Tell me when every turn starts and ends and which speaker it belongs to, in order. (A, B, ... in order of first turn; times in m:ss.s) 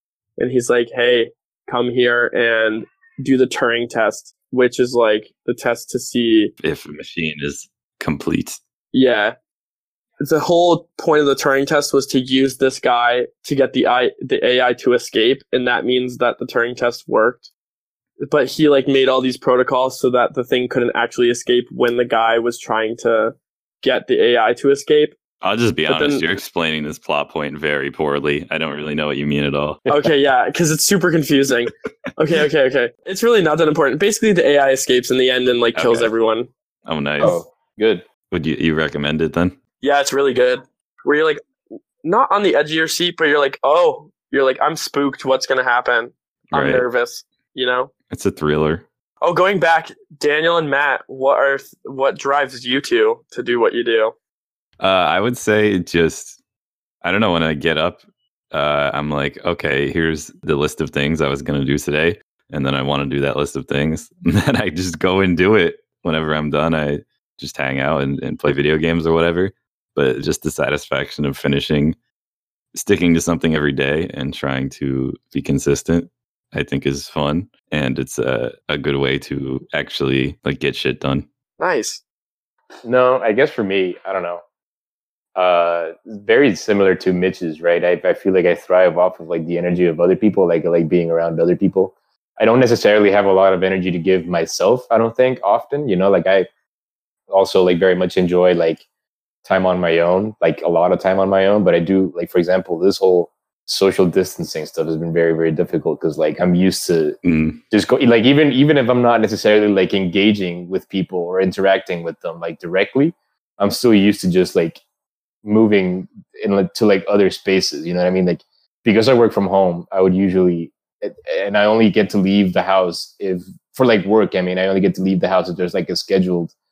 0:00.4-0:06.5 A
0:06.6-0:08.6 B
0:08.9-0:09.4 A
0:10.2-0:17.5 A
0:18.2-0:25.2 A
0:25.4-0:29.8 B
0:25.9-0:26.2 A
0:29.9-0:36.5 A
0:35.8-0:36.1 B
0:36.9-0:37.4 B
0:37.2-0:38.1 C
0:38.3-0:39.6 B
0:39.8-0:41.4 A
0:42.0-0:47.9 A
0:46.5-0:46.9 B
0:48.1-0:48.8 B
0:49.2-0:54.2 A
0:54.8-0:56.4 B
0:57.0-1:12.0 B
1:12.7-1:21.3 B
1:21.6-1:22.0 A
1:22.8-1:24.4 C
1:25.4-1:36.5 C
1:37.3-1:38.8 C
1:39.4-1:47.2 C
1:47.2-1:47.6 B
1:47.7-1:54.8 C
1:55.4-2:06.5 C